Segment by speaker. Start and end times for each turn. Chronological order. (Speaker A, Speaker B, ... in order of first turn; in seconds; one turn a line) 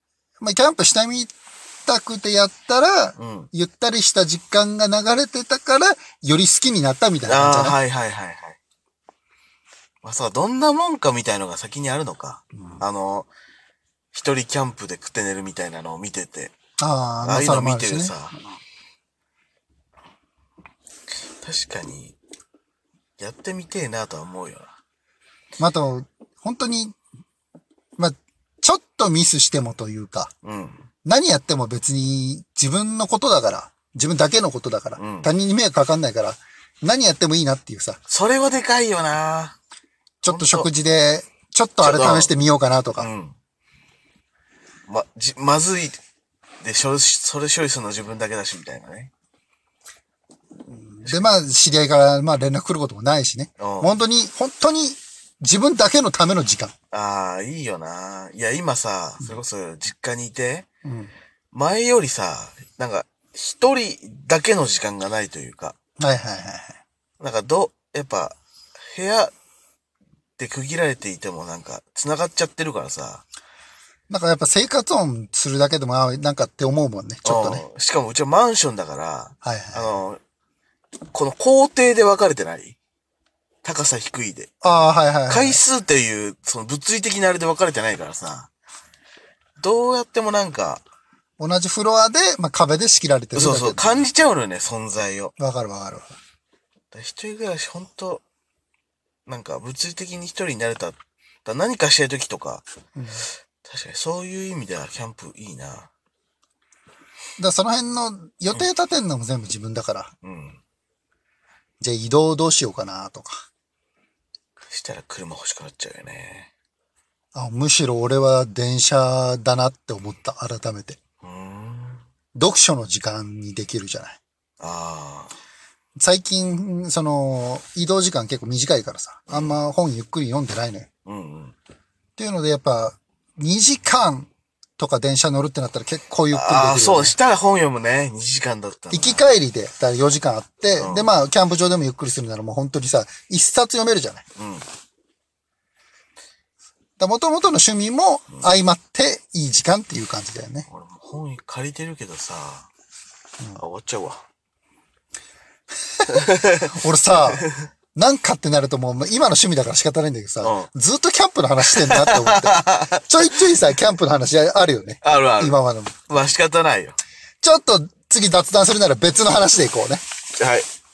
Speaker A: 0.4-1.3
Speaker A: 1.9-7.8
Speaker B: 3.2-3.5
Speaker B: 7.3-8.6
Speaker B: 10.0-13.3
Speaker B: 14.1-16.5
Speaker A: 16.8-18.1
Speaker B: 17.2-18.4
Speaker B: 21.4-22.1
Speaker B: 23.2-24.7
Speaker A: 25.6-27.0
Speaker A: 28.0-30.3
Speaker B: 30.4-30.9
Speaker A: 31.0-38.0
Speaker B: 35.0-35.3
Speaker B: 38.1-39.5
Speaker A: 40.2-43.1
Speaker B: 40.2-40.7
Speaker B: 41.8-42.3
Speaker B: 43.0-43.4
Speaker B: 44.9-46.0
Speaker B: 46.6-49.1
Speaker A: 50.7-56.7
Speaker B: 51.0-51.4
Speaker B: 53.6-54.0
Speaker B: 56.9-60.6
Speaker A: 60.8-61.1
Speaker B: 61.5-65.7
Speaker A: 66.0-66.8
Speaker B: 67.2-68.3
Speaker B: 68.9-69.3
Speaker B: 70.4-73.2
Speaker A: 74.1-77.6
Speaker B: 77.2-80.2
Speaker A: 79.4-79.9
Speaker B: 81.1-82.8
Speaker B: 83.6-84.5
Speaker A: 84.6-85.6
Speaker B: 85.3-88.5
Speaker B: 89.6-90.8
Speaker A: 91.4-94.1
Speaker B: 93.3-95.3
Speaker A: 95.4-96.1
Speaker B: 96.9-98.2
Speaker B: 99.3-102.6
Speaker A: 102.9-103.2
Speaker B: 103.6-105.9
Speaker A: 107.4-110.1
Speaker B: 110.2-110.6
Speaker A: 111.8-113.4
Speaker B: 114.7-116.5
Speaker A: 117.3-121.0
Speaker B: 121.2-122.0
Speaker A: 122.3-124.2
Speaker B: 124.6-125.3
Speaker A: 126.0-130.9
Speaker B: 129.3-129.6
Speaker B: 131.1-131.5
Speaker A: 132.2-137.2
Speaker B: 136.3-139.2
Speaker A: 138.9-144.2
Speaker B: 140.8-141.1
Speaker B: 144.4-144.7
Speaker A: 147.0-150.7
Speaker B: 150.7-152.7
Speaker B: 153.5-154.2
Speaker B: 156.1-156.8
Speaker A: 156.1-166.1
Speaker B: 160.4-160.7
Speaker B: 161.7-163.4
Speaker B: 165.0-165.6
Speaker B: 166.1-167.0
Speaker A: 167.4-170.0
Speaker B: 170.4-170.7